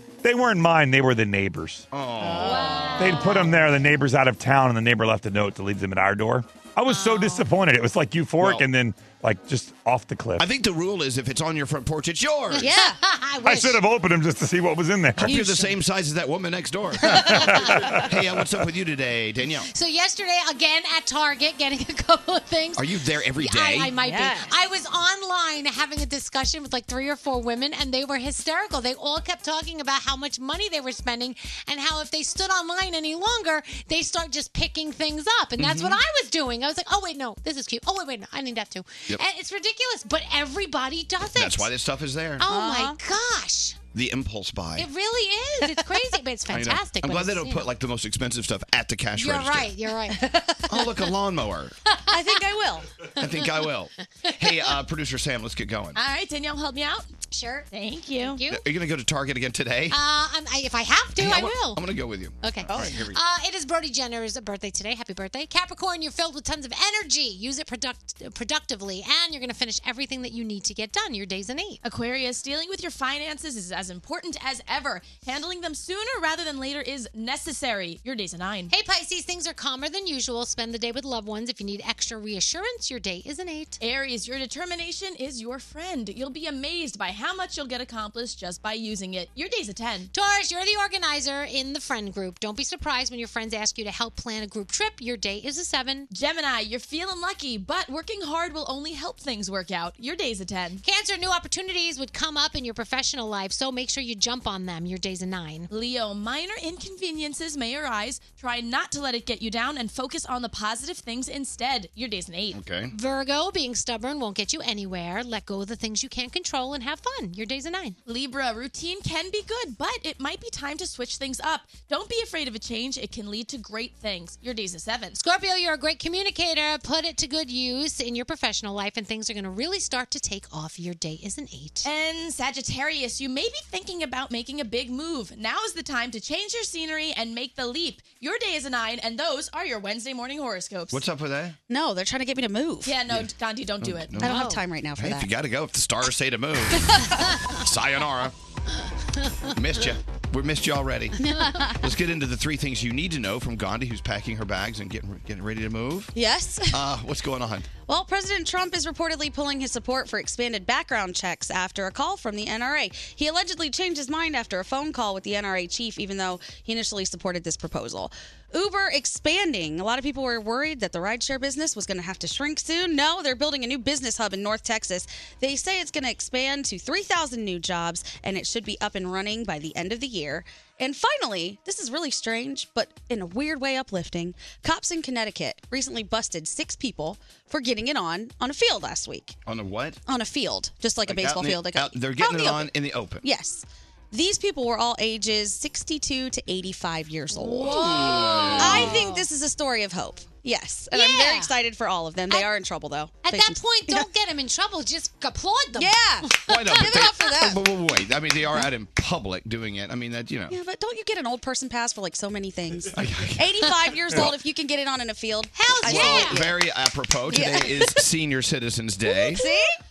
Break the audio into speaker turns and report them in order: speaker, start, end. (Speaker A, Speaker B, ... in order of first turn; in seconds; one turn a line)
Speaker A: 0.2-1.8
Speaker B: 1.9-2.8
Speaker C: 2.2-3.3
Speaker D: 2.4-3.4
Speaker A: 3.0-10.4
Speaker D: 6.9-7.4
Speaker B: 10.4-12.7
Speaker D: 12.5-13.8
Speaker C: 12.6-13.0
Speaker A: 13.4-15.4
Speaker C: 15.2-15.7
Speaker B: 15.2-17.3
Speaker D: 17.1-17.5
Speaker A: 17.1-18.0
Speaker B: 18.0-19.7
Speaker D: 19.7-22.8
Speaker B: 22.8-23.9
Speaker D: 23.4-41.7
Speaker C: 23.9-24.5
Speaker B: 35.6-36.0
Speaker B: 41.3-42.4
Speaker D: 42.4-43.8
Speaker C: 42.5-43.0
Speaker B: 43.9-44.9
Speaker D: 44.8-47.7
Speaker B: 46.5-49.7
Speaker D: 49.1-50.5
Speaker B: 50.7-51.7
Speaker D: 51.9-52.4
Speaker C: 52.1-52.8
Speaker B: 53.2-56.0
Speaker E: 56.0-57.1
Speaker D: 57.3-57.7
Speaker E: 57.7-58.4
Speaker D: 58.2-58.6
Speaker B: 58.5-60.0
Speaker D: 59.9-61.8
Speaker B: 61.2-63.2
Speaker D: 62.4-71.8
Speaker C: 62.7-63.0
Speaker E: 71.8-78.7
Speaker D: 78.7-83.8
Speaker E: 83.8-90.1
Speaker D: 90.1-96.1
Speaker E: 96.1-100.8
Speaker D: 100.8-105.7
Speaker E: 105.7-112.6
Speaker B: 112.5-112.9
Speaker D: 112.9-118.0
Speaker E: 118.0-125.1
Speaker D: 125.2-131.8
Speaker E: 131.8-141.0
Speaker B: 140.9-141.6
Speaker C: 141.7-142.9
Speaker E: 142.8-144.1
Speaker B: 143.8-144.4
Speaker C: 144.2-145.3
Speaker D: 144.2-144.6
Speaker B: 145.0-147.1
Speaker D: 147.0-147.6
Speaker B: 147.6-148.3
Speaker B: 149.5-151.2
Speaker D: 151.2-151.6
Speaker C: 151.2-151.8
Speaker B: 151.8-156.1
Speaker C: 156.1-156.8
Speaker B: 156.7-157.7
Speaker C: 157.9-189.3
Speaker B: 189.4-190.0
Speaker C: 190.1-204.1
Speaker B: 191.1-193.2
Speaker D: 197.4-199.2
Speaker B: 197.7-199.0
Speaker D: 200.9-201.5
Speaker D: 203.2-206.8
Speaker C: 205.7-207.6
Speaker B: 206.5-210.6
Speaker C: 210.5-216.6
Speaker B: 212.9-214.3
Speaker D: 215.5-216.4
Speaker B: 215.8-219.4
Speaker C: 217.3-218.1
Speaker C: 219.0-219.7